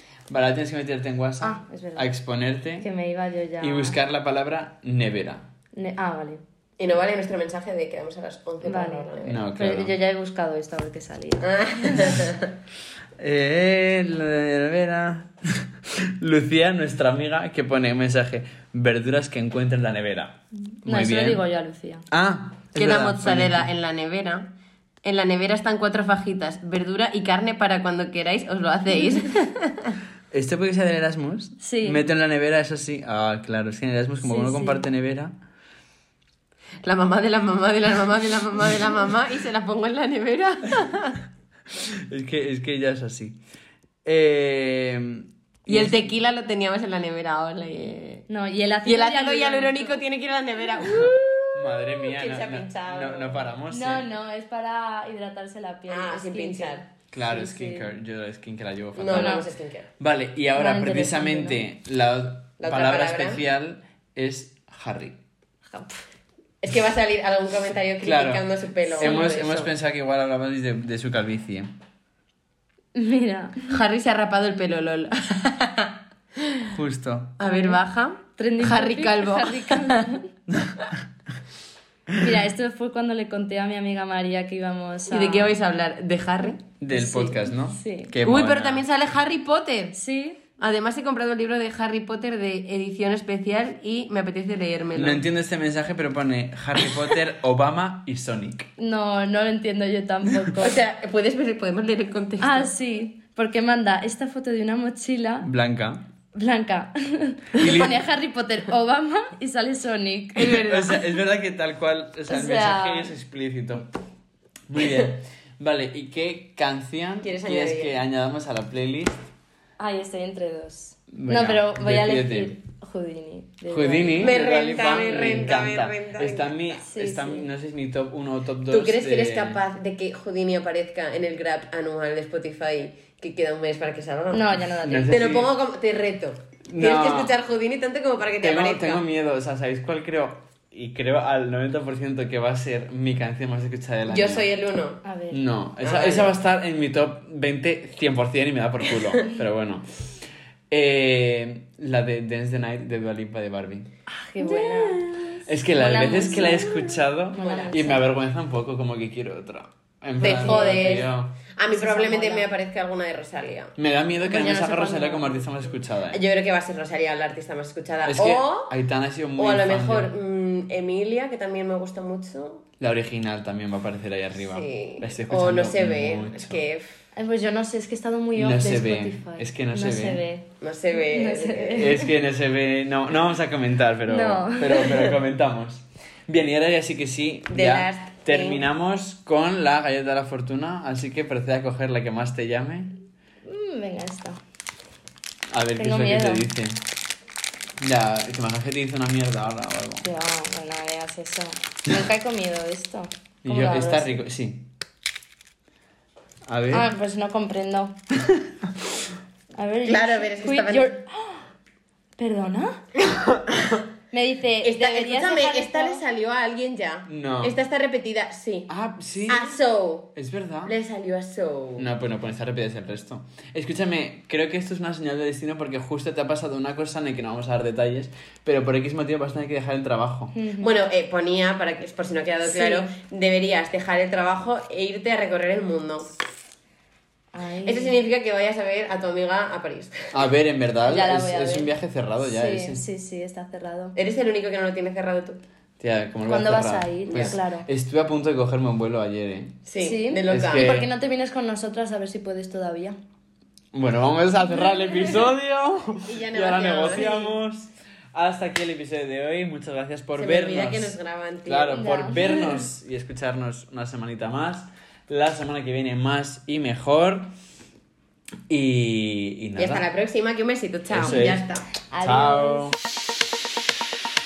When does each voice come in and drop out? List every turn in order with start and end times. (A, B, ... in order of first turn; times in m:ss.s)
0:00.3-0:02.9 A
0:01.4-0:02.1 B
0:02.8-0:04.0 B
0:03.6-0:05.5 A
0:05.7-0:06.4 B
0:06.8-0:09.4 C
0:08.6-0:12.2 B
0:09.2-0:09.9 A
0:11.4-0:12.5 C
0:13.2-0:21.4 A
0:20.8-0:22.1 B
0:22.1-0:23.7 A
0:22.8-0:24.5 C
0:25.0-0:30.0 C
0:30.3-0:35.3 A
0:31.6-0:32.0 B
0:34.2-0:34.8 B
0:36.8-0:41.2 C
0:41.9-0:43.4 A
0:44.0-0:46.1 A
0:45.7-0:48.3 C
0:48.3-0:50.0 B
0:48.8-0:53.5 C
0:50.9-0:54.1 A
0:53.7-0:57.9 B
0:55.9-0:56.9 C
0:57.1-0:59.4 A
0:59.0-0:59.9 C
0:59.1-0:59.4 B
1:00.0-1:05.2 A
1:00.6-1:01.6 B
1:02.6-1:03.4 C
1:05.7-1:06.0 B
1:06.6-1:09.7 C
1:08.0-1:11.7 A
1:09.0-1:09.2 B
1:13.0-1:13.7 B
1:13.7-1:16.8 C
1:16.7-1:17.3 A
1:17.4-1:20.1 C
1:17.4-1:17.8 B
1:18.4-1:20.3 B
1:22.2-1:25.5 B
1:25.1-1:26.6 C
1:26.8-1:28.9 A
1:26.9-1:28.1 B
1:28.2-1:30.0 C
1:29.9-1:30.4 B
1:30.6-1:35.2 C
1:35.0-1:38.7 A
1:38.8-1:40.8 B
1:40.6-1:42.7 C
1:42.4-1:45.5 B
1:45.4-1:46.0 A
1:46.3-1:50.7 B
1:47.6-1:48.0 A
1:50.4-1:51.0 C
1:50.5-1:53.9 A
1:52.3-1:53.1 B
1:54.7-1:59.2 A
1:57.2-1:58.0 C
1:59.8-2:04.4 B
2:01.1-2:02.6 A
2:03.7-2:09.6 A
2:04.2-2:06.7 C
2:06.8-2:07.5 B
2:08.7-2:14.5 C
2:14.3-2:15.1 B
2:14.8-2:15.6 A
2:15.1-2:19.0 C
2:16.7-2:17.3 A
2:18.4-2:24.5 A
2:24.1-2:25.0 C
2:25.0-2:25.4 B
2:25.3-2:29.9 A
2:25.8-2:26.3 C
2:30.7-2:33.9 A
2:34.1-2:38.0 B
2:34.4-2:35.2 C
2:35.5-2:41.3 A
2:36.1-2:36.7 C
2:37.3-2:38.0 C
2:40.2-2:43.8 C
2:40.2-2:41.1 B
2:41.7-2:42.5 B
2:43.8-2:46.2 A
2:44.2-2:45.4 B
2:46.1-2:48.7 C
2:48.0-2:50.1 A
2:49.4-2:52.7 C
2:52.8-2:56.6 A
2:54.4-2:57.0 C
2:57.2-3:02.1 B
2:58.4-3:00.2 A
3:00.6-3:02.0 C
3:01.8-3:13.0 A
3:04.1-3:05.2 B
3:07.5-3:08.7 C
3:13.4-3:14.4 B
3:15.5-3:16.8 A
3:15.8-3:16.5 B
3:17.8-3:20.0 A
3:20.0-3:24.2 B
3:23.4-3:24.7 A
3:26.5-3:26.9 A
3:26.7-3:28.0 B
3:29.6-3:31.4 B
3:29.9-3:31.0 C
3:32.2-3:32.8 B
3:33.1-3:33.8 C
3:34.1-3:36.0 B
3:34.6-3:38.7 C
3:37.1-3:37.6 A
3:38.7-3:39.6 A
3:39.3-3:40.1 C
3:40.2-3:40.7 A
3:40.6-3:41.9 C
3:41.8-3:50.4 A
3:50.3-3:50.7 B
3:50.6-3:56.1 C
3:52.4-3:52.9 B
3:57.3-3:58.0 B
3:57.6-4:00.3 C
4:00.1-4:02.8 A
4:00.9-4:01.7 B
4:02.2-4:04.0 B
4:04.0-4:05.4 C
4:05.8-4:09.6 A
4:06.3-4:07.7 B
4:07.1-4:07.4 C
4:09.7-4:10.8 C
4:09.8-4:13.0 B
4:10.3-4:10.9 A
4:13.7-4:27.3 A
4:16.0-4:17.3 C
4:17.0-4:17.3 B
4:20.2-4:21.9 C
4:21.7-4:22.3 B
4:28.5-4:29.8 A
4:29.6-4:31.7 C
4:30.9-4:31.5 A
4:31.9-4:32.7 B
4:32.0-4:32.8 A